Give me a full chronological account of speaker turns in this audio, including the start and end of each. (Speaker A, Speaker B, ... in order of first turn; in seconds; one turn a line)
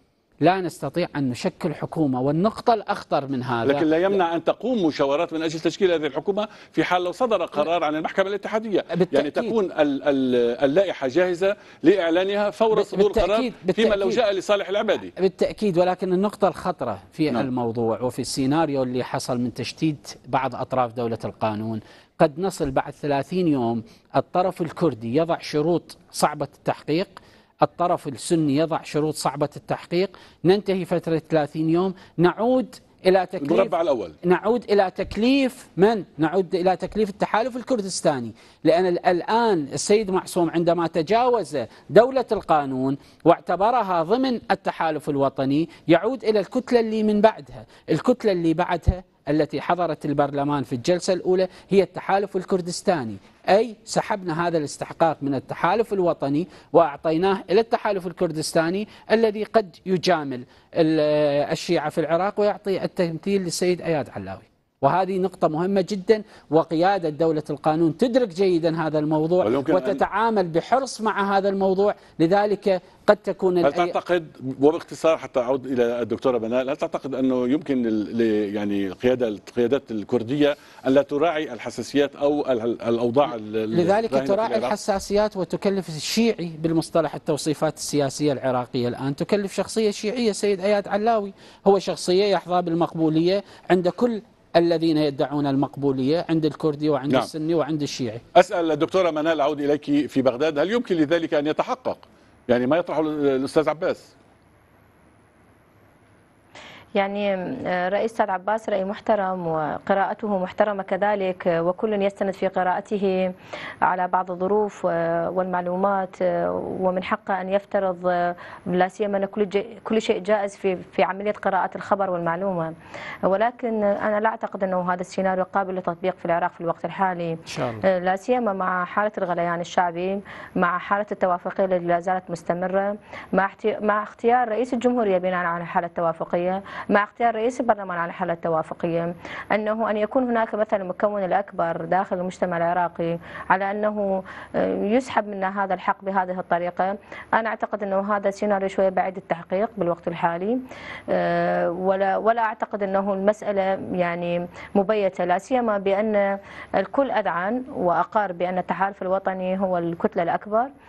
Speaker A: 0.4-4.2
Speaker B: 3.6-15.1
Speaker A: 8.9-9.6
Speaker A: 12.7-14.2
Speaker A: 15.2-74.0
Speaker B: 33.4-34.1
Speaker B: 69.4-70.0
Speaker B: 73.6-84.7
Speaker A: 83.7-98.2
Speaker B: 98.3-104.1
Speaker C: 107.0-113.3
Speaker C: 113.8-122.7
Speaker C: 123.2-156.2
Speaker A: 127.5-127.8
Speaker C: 156.8-160.7